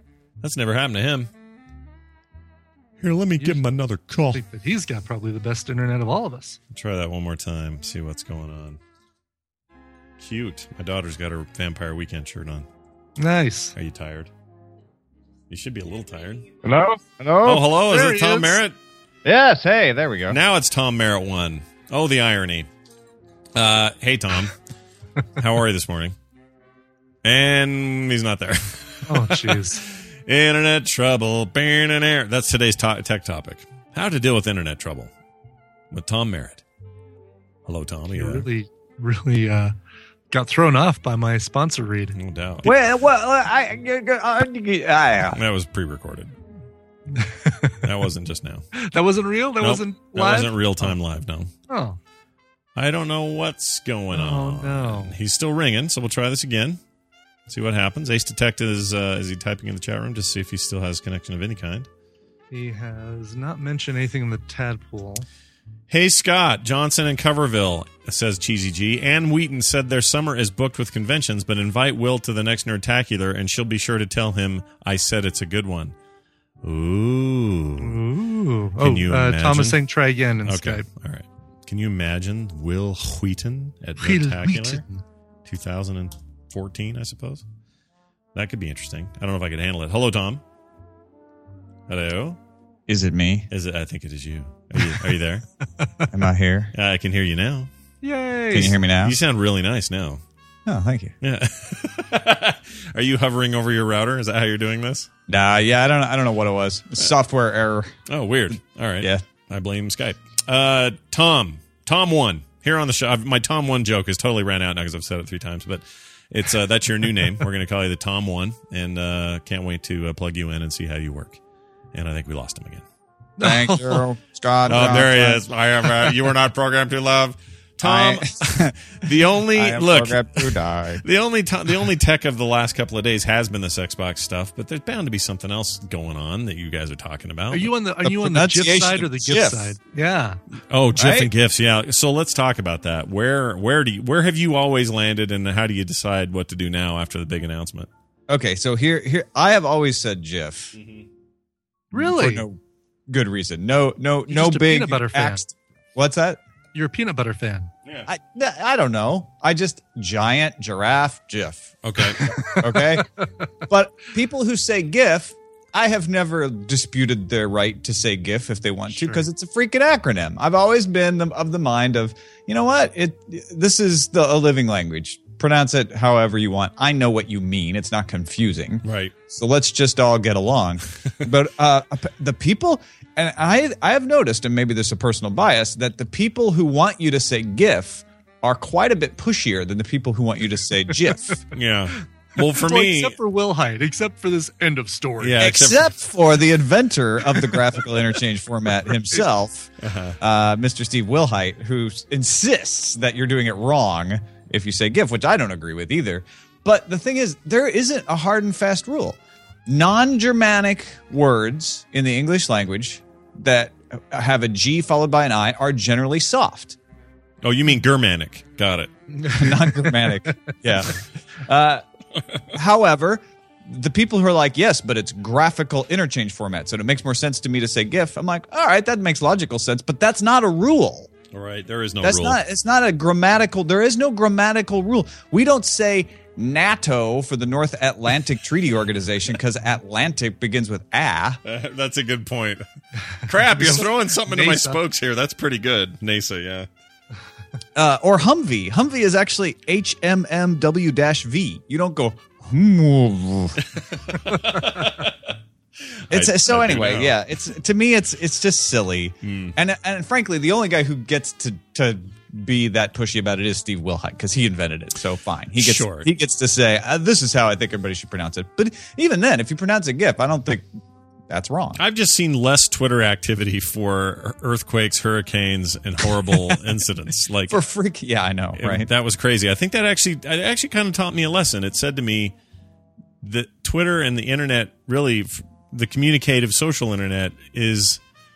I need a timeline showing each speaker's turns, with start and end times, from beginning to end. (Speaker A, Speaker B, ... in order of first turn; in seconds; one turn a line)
Speaker A: 0.4-1.3
Speaker A: 3.0-4.4
Speaker B: 4.3-6.6
Speaker A: 6.7-8.8
Speaker A: 10.2-12.7
Speaker B: 13.2-13.7
Speaker A: 13.7-14.3
Speaker A: 15.5-16.4
Speaker C: 16.6-17.6
Speaker A: 17.4-18.8
Speaker B: 17.9-18.6
Speaker C: 19.2-20.4
Speaker A: 20.3-22.7
Speaker A: 23.5-24.5
Speaker A: 25.4-26.1
Speaker A: 27.2-29.6
Speaker B: 29.1-29.8
Speaker A: 30.3-35.1
Speaker A: 35.9-36.6
Speaker A: 37.7-38.5
Speaker B: 38.1-39.7
Speaker B: 40.3-42.1
Speaker A: 42.1-42.7
Speaker D: 42.6-45.4
Speaker A: 45.3-46.3
Speaker B: 47.1-47.8
Speaker A: 47.8-48.7
Speaker B: 48.8-51.0
Speaker A: 49.6-51.5
Speaker B: 51.7-52.0
Speaker A: 52.8-56.8
Speaker B: 54.1-55.1
Speaker A: 57.5-61.9
Speaker B: 62.5-65.2
Speaker A: 65.9-75.9
Speaker A: 76.6-78.0
Speaker B: 77.8-80.8
Speaker A: 78.8-79.8
Speaker A: 80.4-84.8
Speaker B: 84.0-85.0
Speaker A: 85.4-87.4
Speaker A: 88.3-90.4
Speaker A: 91.9-92.4
Speaker D: 92.9-93.5
Speaker A: 93.5-95.4
Speaker D: 96.1-96.7
Speaker A: 96.7-97.7
Speaker B: 98.0-98.8
Speaker D: 98.5-99.2
Speaker A: 98.6-100.2
Speaker D: 100.7-101.1
Speaker A: 101.2-105.1
Speaker D: 105.3-107.9
Speaker A: 108.1-121.4
Speaker A: 121.9-122.8
Speaker B: 123.4-124.0
Speaker D: 123.4-125.4
Speaker A: 124.7-137.7
Speaker D: 127.8-131.0
Speaker B: 137.5-140.4
Speaker D: 138.0-139.7
Speaker A: 140.7-147.9
Speaker D: 140.9-141.3
Speaker D: 148.3-150.8
Speaker A: 150.7-151.0
Speaker B: 151.9-152.4
Speaker D: 151.9-156.4
Speaker B: 154.3-155.4
Speaker B: 156.7-157.7
Speaker D: 158.1-161.7
Speaker A: 161.8-162.3
Speaker B: 162.2-163.4
Speaker D: 162.5-163.0
Speaker D: 163.7-191.4
Speaker B: 168.9-169.2
Speaker A: 178.8-179.1
Speaker A: 191.5-193.1
Speaker B: 192.4-195.5
Speaker A: 195.2-195.9
Speaker D: 195.4-216.8
Speaker A: 199.8-200.1
Speaker A: 217.4-218.9
Speaker B: 219.1-220.5
Speaker D: 219.3-221.8
Speaker D: 222.5-231.1
Speaker A: 231.3-232.4
Speaker D: 232.0-241.4
Speaker A: 241.4-242.6
Speaker A: 243.2-246.7
Speaker B: 243.3-244.8
Speaker D: 247.8-253.6
Speaker A: 254.1-255.1
Speaker A: 256.1-257.2
Speaker D: 256.1-270.7
Speaker A: 259.2-259.5
Speaker A: 265.6-266.1
Speaker D: 271.3-271.8
Speaker A: 271.8-277.6
Speaker D: 277.5-278.9
Speaker A: 278.6-282.3
Speaker A: 283.2-288.0